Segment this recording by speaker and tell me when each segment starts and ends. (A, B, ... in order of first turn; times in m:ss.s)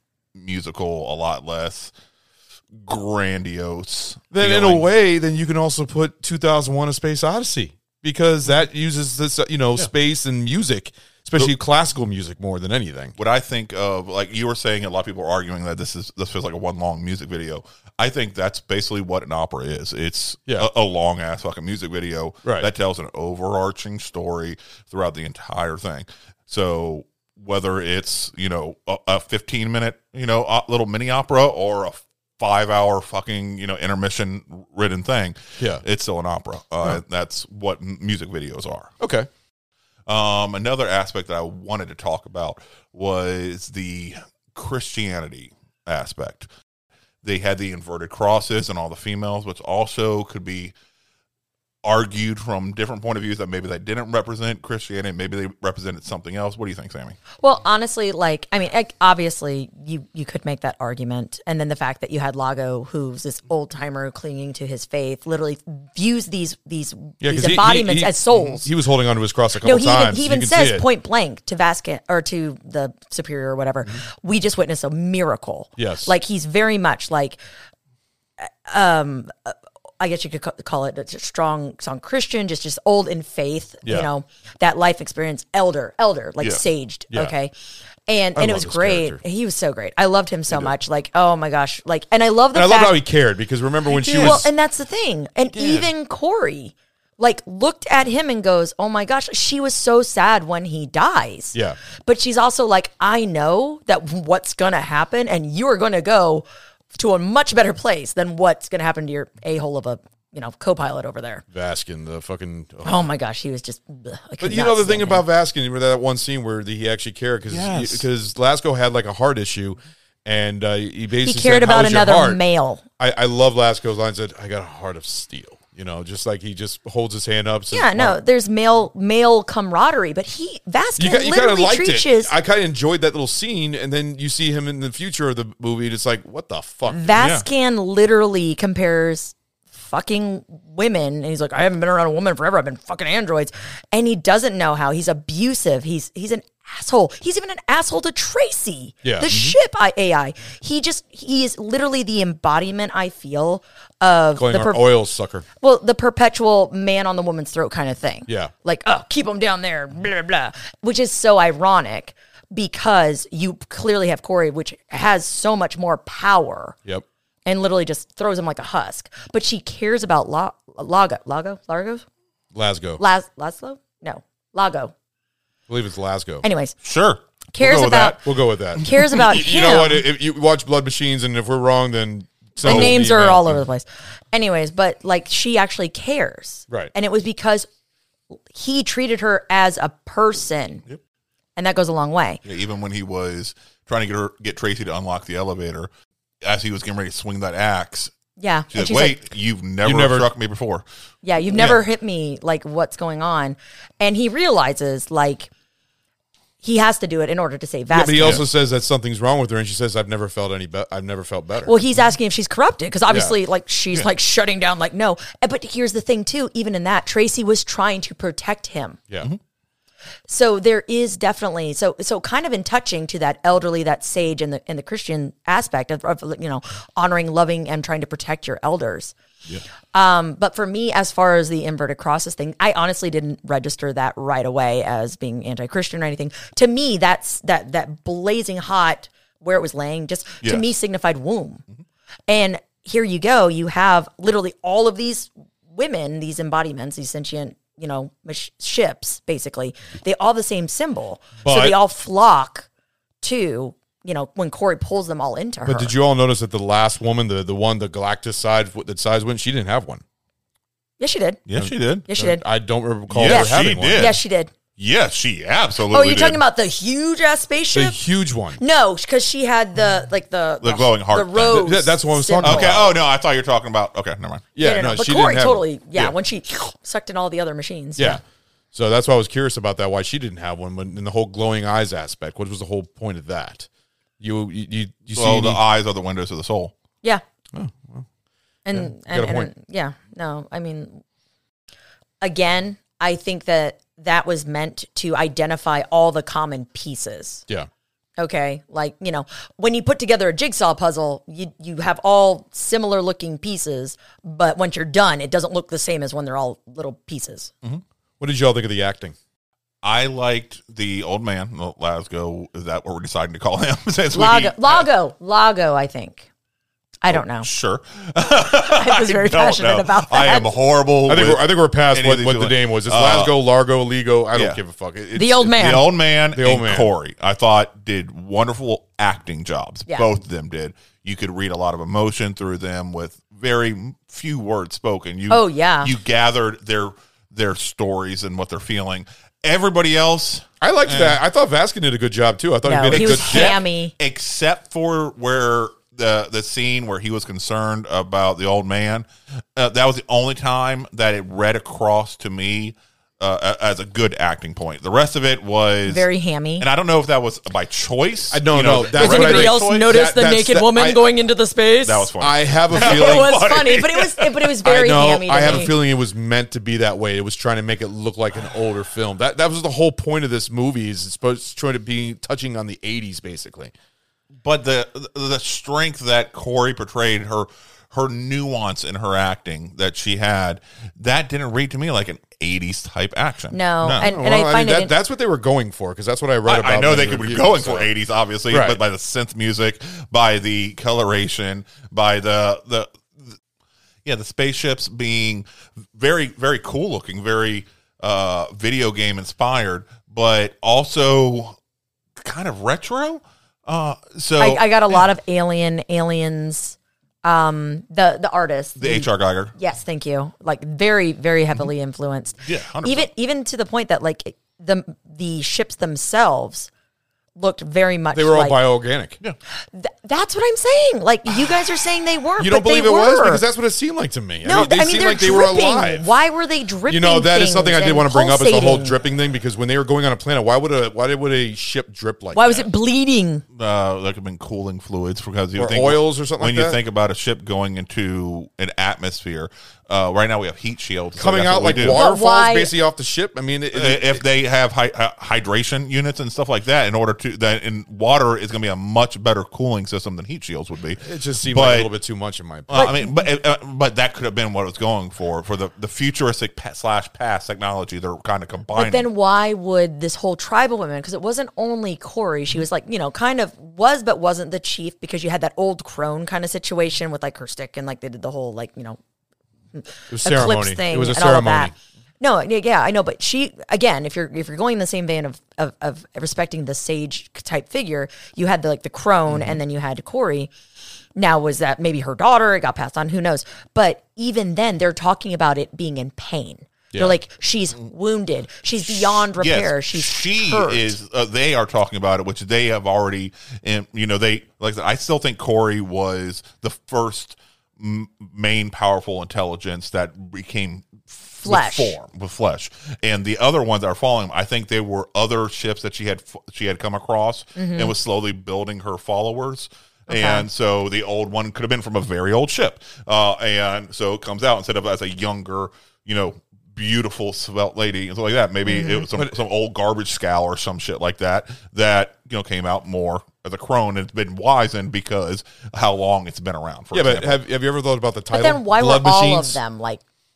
0:00.3-0:01.9 A
0:02.7-0:04.9 A
0:04.3-0:13.2 B
0:13.2-0:38.9 A
0:39.0-0:39.3 B
0:40.1-0:46.5 A
0:47.2-0:50.7 A
0:51.8-0:57.2 A
0:57.4-1:08.6 C
1:07.2-1:10.8 B
1:09.6-1:17.4 C
1:15.8-1:16.1 B
1:18.4-1:27.5 C
1:28.1-1:33.0 C
1:28.4-1:29.2 B
1:32.5-1:34.5 B
1:34.0-1:34.4 A
1:34.0-1:51.4 C
1:35.5-1:35.9 A
1:51.5-1:53.0 B
1:52.8-1:55.2 C
1:54.4-2:02.4 B
1:57.5-1:58.1 A
2:01.2-2:02.8 C
2:03.0-2:08.2 B
2:07.7-2:12.3 C
2:11.0-2:17.1 B
2:16.9-2:34.9 C
2:17.1-2:17.4 A
2:29.0-2:29.3 B
2:29.3-2:29.5 A
2:34.4-2:35.4 B
2:35.6-2:46.8 C
2:47.4-2:52.0 C
2:52.5-2:53.0 B
2:53.0-2:54.9 C
2:55.7-2:56.4 B
2:56.4-2:56.8 C
2:56.8-2:58.2 A
2:57.5-2:58.2 C
2:58.2-3:03.6 B
2:58.7-2:59.2 A
2:58.8-3:00.0 C
3:02.6-3:07.7 C
3:02.6-3:02.9 A
3:08.5-3:10.8 C
3:11.6-3:12.4 C
3:12.4-3:15.9 A
3:16.4-3:18.1 A
3:18.4-3:19.2 C
3:18.7-3:20.8 A
3:19.8-3:20.3 B
3:21.2-3:25.5 C
3:26.6-3:28.4 C
3:27.9-3:31.7 B
3:28.2-3:28.4 A
3:31.6-3:39.0 C
3:40.3-3:49.1 C
3:49.9-4:01.6 C
4:02.3-4:12.7 C
4:11.4-4:11.8 B
4:13.2-4:15.9 C
4:15.6-4:20.0 B
4:21.0-4:21.4 C
4:21.5-4:22.1 A
4:21.6-4:24.1 B
4:22.1-4:22.4 C
4:23.1-4:24.2 A
4:23.2-4:24.5 C
4:24.8-4:26.4 A
4:25.9-4:28.0 C
4:27.7-4:28.6 B
4:28.6-4:32.8 C
4:30.6-4:31.7 A
4:31.4-4:32.9 B
4:32.4-4:34.5 A
4:34.5-4:36.1 B
4:34.6-4:38.2 C
4:38.0-4:38.2 B
4:38.7-4:43.7 B
4:44.2-4:45.6 B
4:45.2-4:46.7 A
4:47.5-4:48.0 B
4:48.6-4:51.0 C
4:48.7-4:49.5 B
4:52.2-4:57.4 C
4:58.2-5:07.5 C
5:08.2-5:09.1 B
5:09.8-5:14.9 A
5:14.1-5:16.3 C
5:17.0-5:17.5 C
5:17.1-5:23.4 A
5:18.4-5:20.5 C
5:21.0-5:25.7 B
5:24.4-5:24.6 A
5:25.1-5:25.9 C
5:25.5-5:41.2 A
5:26.3-5:26.9 B
5:35.3-5:35.9 C
5:40.6-5:43.6 B
5:42.6-5:43.9 C
5:42.9-5:56.1 A
5:55.9-5:56.6 C
5:56.6-5:59.9 A
5:58.3-6:01.0 B
5:58.9-6:02.1 C
6:01.8-6:04.5 A
6:02.2-6:03.4 B
6:02.7-6:05.7 C
6:04.6-6:13.7 B
6:14.4-6:24.1 A
6:23.5-6:24.9 C
6:24.0-6:27.9 B
6:26.4-6:33.4 A
6:28.5-6:28.8 B
6:34.0-6:41.6 A
6:42.2-6:45.0 A
6:44.4-6:56.7 C
6:48.8-6:49.5 A
6:52.4-6:53.1 A
6:57.4-6:58.6 C
6:58.1-6:59.2 B
6:59.7-7:03.4 C
7:02.4-7:06.1 B
7:04.4-7:09.0 C
7:06.9-7:12.5 B
7:12.3-7:13.4 C
7:13.5-7:22.0 A
7:15.6-7:16.8 B
7:21.2-7:24.2 B
7:21.7-7:22.7 C
7:23.7-7:31.9 A
7:31.0-7:32.9 B
7:32.7-7:39.1 A
7:32.7-7:33.1 C
7:38.8-7:49.0 C
7:49.7-8:00.5 C
7:50.1-7:51.7 B
8:01.2-8:10.9 C
8:08.9-8:47.4 A
8:21.4-8:22.0 C
8:27.6-8:27.9 C
8:30.1-8:30.4 C
8:38.7-8:39.1 C
8:46.9-8:49.6 B
8:48.3-8:50.0 C